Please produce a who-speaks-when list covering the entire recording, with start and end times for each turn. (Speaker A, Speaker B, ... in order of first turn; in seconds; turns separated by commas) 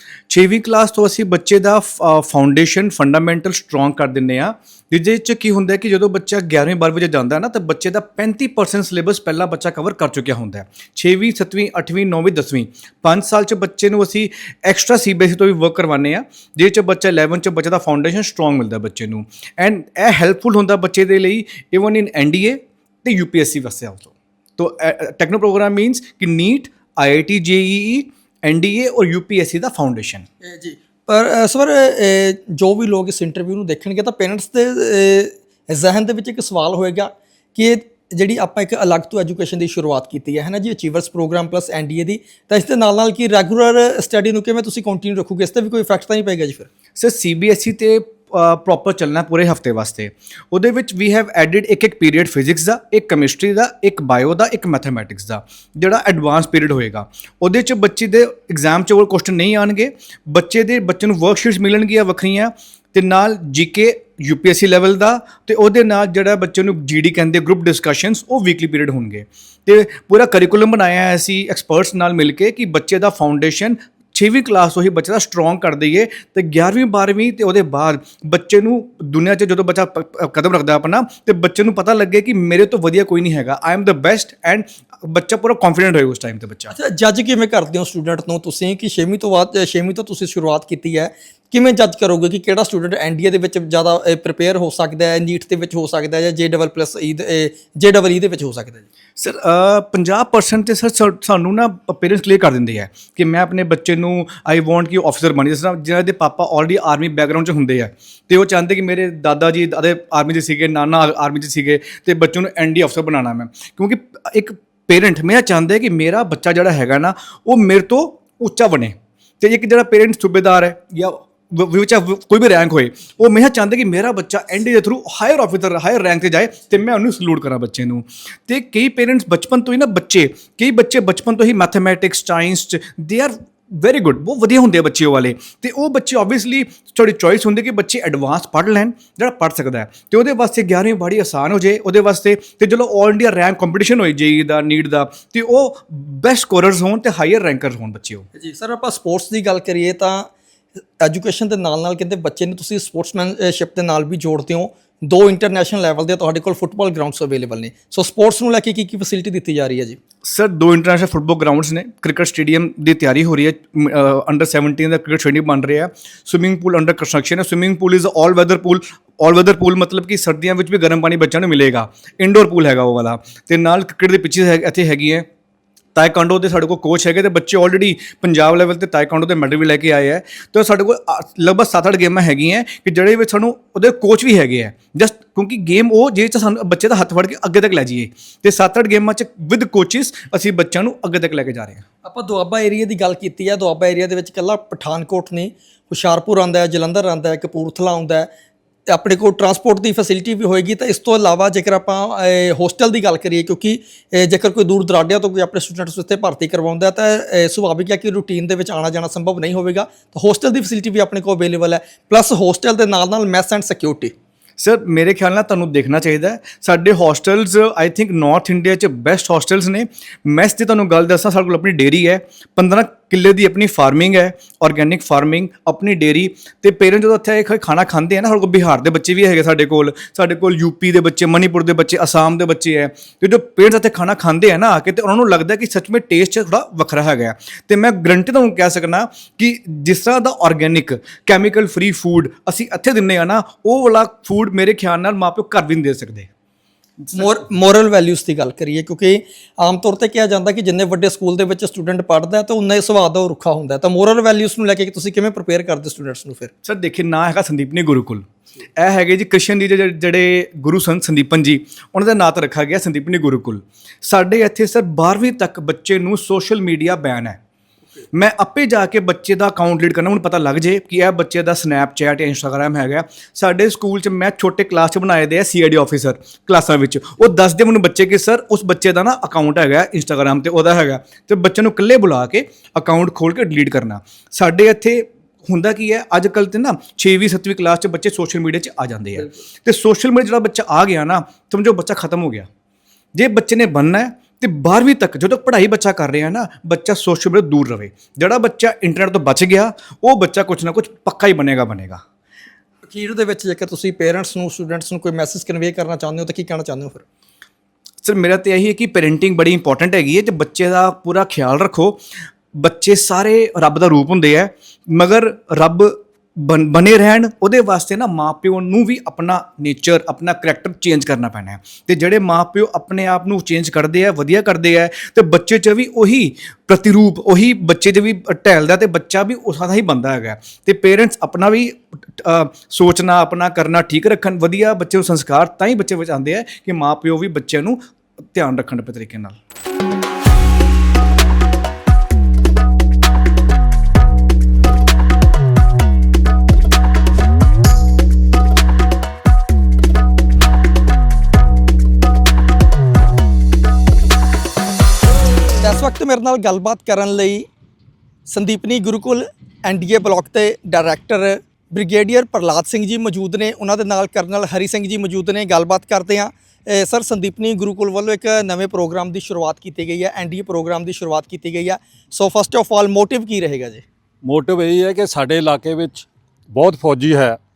Speaker A: 0.3-30.2, Speaker B: 30.4-46.7, Speaker A: 47.0-86.7, Speaker B: 86.7-98.9, Speaker A: 99.2-148.2, Speaker B: 148.4-150.3, Speaker B: 151.0-160.0, Speaker A: 160.3-175.3, Speaker A: 176.0-191.8, Speaker B: 192.0-198.3, Speaker B: 198.9-214.1, Speaker A: 214.7-246.3, Speaker B: 247.2-256.5, Speaker A: 256.6-258.2, Speaker A: 258.8-267.4, Speaker A: 268.1-292.5, Speaker A: 293.2-302.0, Speaker B: 302.9-307.0, Speaker A: 308.1-312.0, Speaker A: 312.6-337.8, Speaker A: 338.3-339.2, Speaker B: 355.6-357.5, Speaker B: 358.3-373.9, Speaker C: 374.2-377.4